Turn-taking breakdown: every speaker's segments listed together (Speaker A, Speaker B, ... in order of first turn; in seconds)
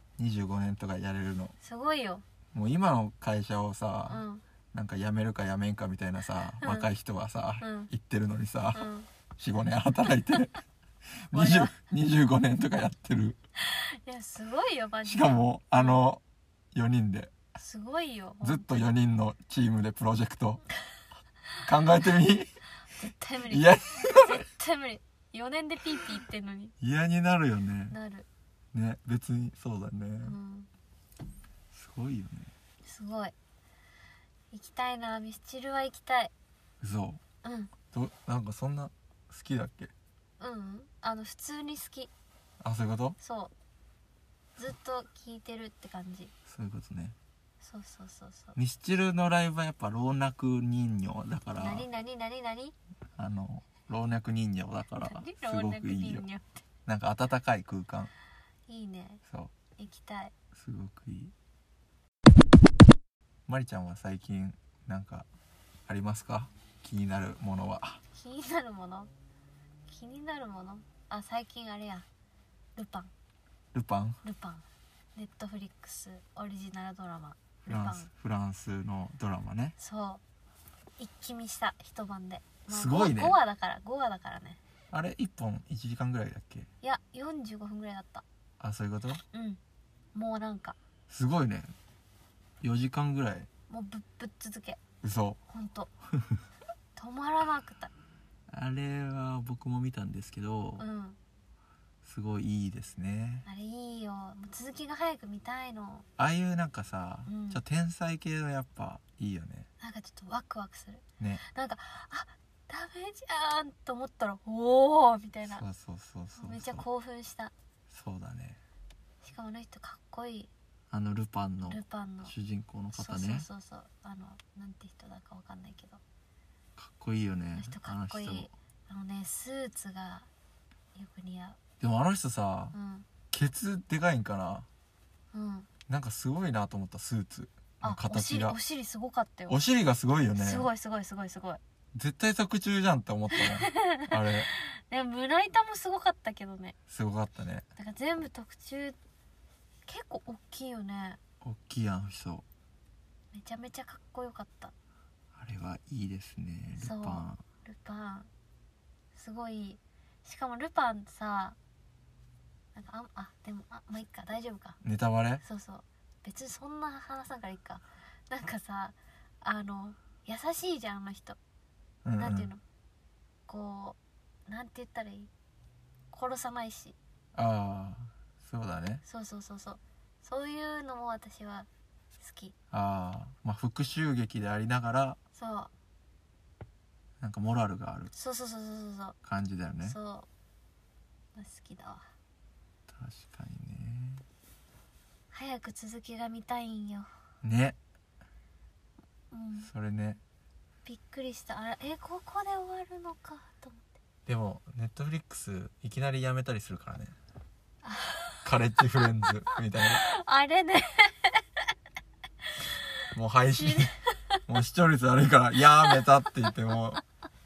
Speaker A: 0.2-1.6, 2.5-10.6, 11.3-13.4, 15.1-16.2, 16.7-17.3, 18.4-20.7, 21.6-22.5, 23.5-24.4, 26.8-27.9, 28.7-30.4, 31.7-32.5, 36.8-37.2, 37.9-39.9, 42.6-43.2, 46.5-47.2, 48.6-51.9, 53.2-56.3, 56.9-58.1, 59.3-59.5, 60.5-61.3, 63.5-65.3, 65.9-68.0, 73.7-74.2, 77.7-79.8, 82.7-83.4, 84.9-86.7, 88.6-89.2, 91.1-91.7, 92.6-93.5, 95.0-95.4, 98.5-100.9, 102.0-103.5, 106.2-109.7, 115.5-116.8, 117.9-118.6, 120.9-123.5, 126.8-128.5, 131.8-132.8, 133.3-134.7, 135.9-138.6, 139.5-140.7, 141.9-144.5, 146.9-147.7, 151.4-152.4, 155.4-157.4, 164.8-165.4, 172.0-172.5, 177.3-179.0, 182.7-185.2, 187.2-188.1, 189.2-190.0, 192.9-194.2, 197.4-197.8, 199.6-200.2, 204.3-207.2, 208.4-210.0, 213.1-213.9, 214.5-217.0
Speaker B: 1.6-2.2, 4.1-4.4, 6.6-6.9, 7.6-7.9, 8.7-9.1, 11.3-11.7, 13.6-16.0, 17.6-18.9, 23.0-26.7, 27.9-28.3, 30.2-30.7, 32.8-33.3, 34.5-36.3, 37.4-37.7, 40.4-42.1, 43.2-43.5, 44.6-46.3, 47.6-48.6, 51.5-52.8, 55.0-56.6, 58.7-59.2, 59.8-60.3, 68.2-69.1, 69.9-72.1, 72.8-73.1, 74.2-78.1, 79.8-80.2, 81.0-84.6, 86.8-88.2, 89.3-89.6, 90.1-90.8, 93.7-94.8, 95.5-95.9, 97.0-97.9, 100.8-101.2, 103.5-106.1, 107.3-107.6, 109.8-115.7, 116.4-117.5, 119.2-120.5, 121.7-122.3, 122.9-126.0, 127.6-130.3, 130.9-131.6, 132.7-133.1, 135.3-135.7, 137.8-139.6, 140.4-141.6, 143.3-146.8, 147.8-149.0, 149.9-151.2, 153.3-154.7, 156.8-158.3, 159.1-161.6, 162.8-164.8, 165.4-171.4, 172.2-172.6, 173.5-175.3, 176.1-177.0, 179.1-182.6, 185.3-185.7, 188.1-189.2, 189.8-190.3, 191.3-192.1, 195.3-197.1, 199.3-199.7, 200.8-203.9, 207.8-208.4, 209.9-211.4, 213.5-214.4, 215.8-216.5